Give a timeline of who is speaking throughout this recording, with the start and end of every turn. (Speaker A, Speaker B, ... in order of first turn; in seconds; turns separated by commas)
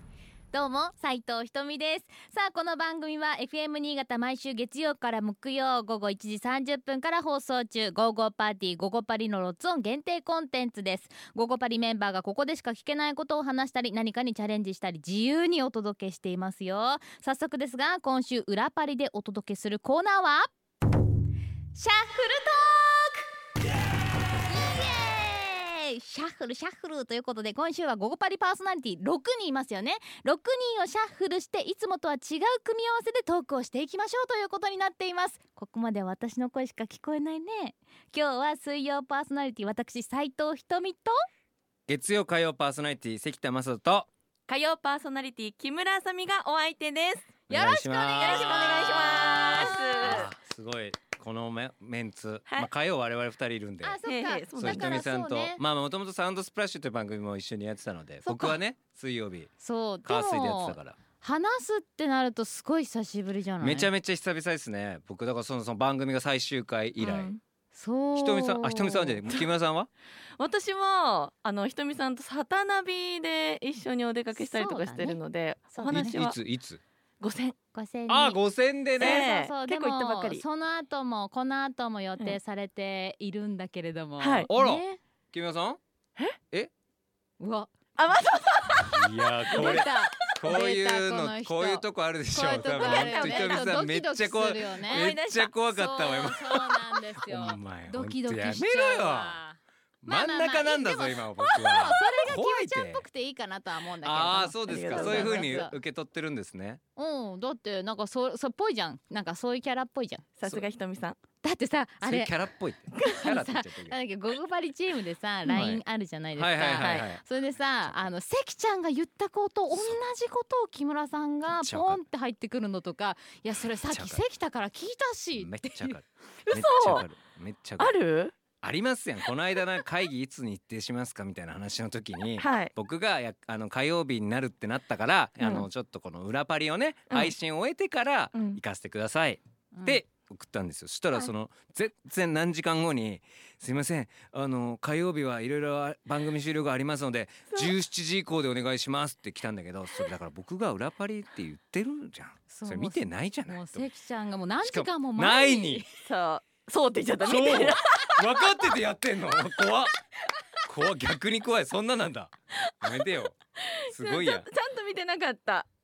Speaker A: 0.5-20.5, Speaker A: 21.7-23.2, Speaker A: 24.5-41.1, Speaker B: 41.9-44.1, Speaker C: 44.5-47.4, Speaker A: 47.5-50.2, Speaker B: 47.5-54.0, Speaker C: 48.2-50.3, Speaker A: 53.8-55.6, Speaker C: 54.0-55.0, Speaker B: 54.6-59.5, Speaker A: 58.2-58.6, Speaker A: 59.6-63.9, Speaker B: 60.0-61.0, Speaker B: 63.6-67.3, Speaker C: 67.0-67.4, Speaker A: 67.7-69.2, Speaker B: 68.1-69.9, Speaker C: 70.4-76.4, Speaker A: 74.3-75.2, Speaker A: 75.7-76.2, Speaker B: 75.9-76.8, Speaker C: 77.2-77.5, Speaker A: 77.7-78.4, Speaker B: 78.1-79.2, Speaker C: 79.0-80.4, Speaker A: 79.0-85.0, Speaker C: 84.2-84.5, Speaker B: 84.5-85.8, Speaker A: 87.4-87.7, Speaker C: 88.0-90.1, Speaker B: 88.9-99.4, Speaker A: 89.5-95.1, Speaker C: 92.5-93.8, Speaker C: 94.8-95.5, Speaker A: 95.7-105.7, Speaker B: 100.0-103.0, Speaker B: 104.0-106.8, Speaker C: 104.7-105.5, Speaker A: 107.0-110.3, Speaker C: 110.4-111.2, Speaker A: 111.4-112.3, Speaker B: 112.0-114.0, Speaker A: 113.0-126.0, Speaker B: 115.5-115.8, Speaker B: 116.3-117.2, Speaker C: 116.8-117.1, Speaker B: 119.7-120.0, Speaker B: 121.5-122.0, Speaker B: 123.7-124.2, Speaker B: 125.3-128.0, Speaker C: 126.4-127.1, Speaker C: 127.8-128.3, Speaker B: 128.6-153.9, Speaker C: 132.4-132.7, Speaker C: 135.4-135.7, Speaker C: 138.3-138.6, Speaker A: 139.7-140.0, Speaker A: 152.5-155.9, Speaker B: 154.6-155.8, Speaker C: 156.0-158.1, Speaker B: 157.2-159.9, Speaker B: 160.6-164.4, Speaker C: 162.7-163.0, Speaker C: 163.6-165.7